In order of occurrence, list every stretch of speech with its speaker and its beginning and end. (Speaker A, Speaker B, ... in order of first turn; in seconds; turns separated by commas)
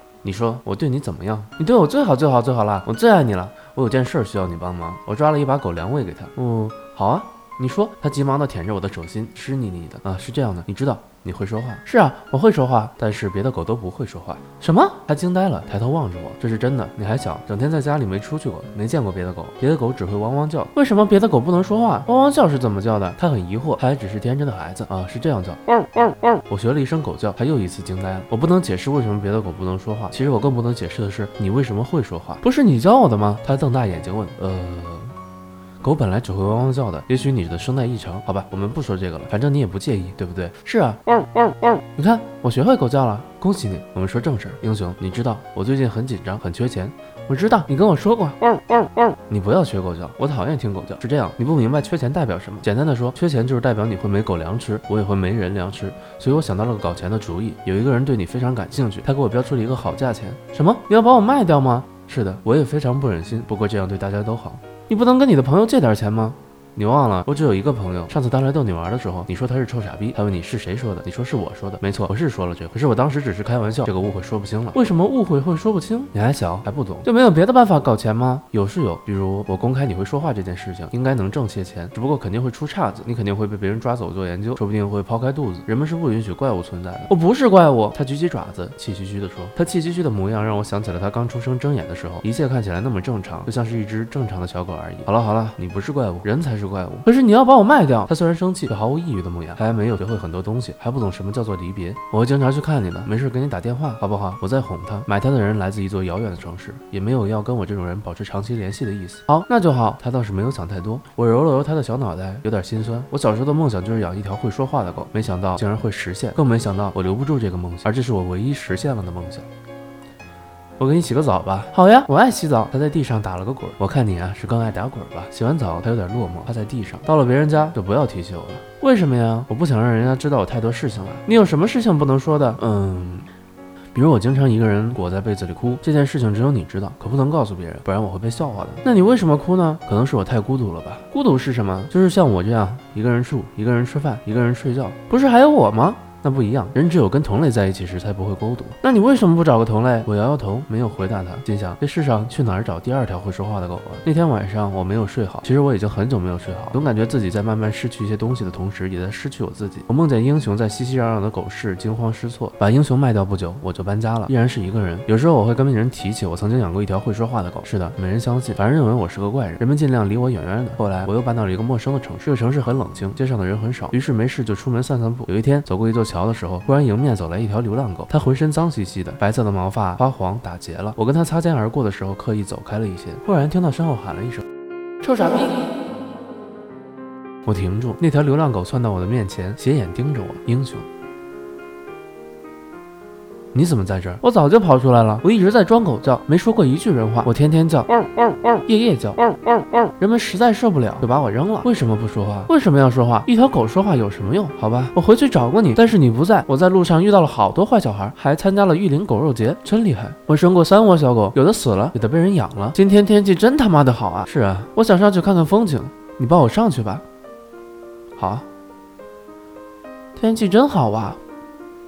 Speaker A: 0.2-25.6, Speaker A: 26.5-35.1, Speaker A: 35.8-41.0, Speaker A: 41.9-48.4, Speaker A: 49.3-119.5, Speaker A: 120.8-133.3, Speaker A: 133.9-184.4, Speaker A: 185.0-185.7, Speaker A: 187.4-190.9, Speaker A: 193.5-197.9, Speaker A: 198.7-199.3, Speaker A: 200.0-217.0, Speaker A: 218.2-218.4, Speaker A: 220.2-221.2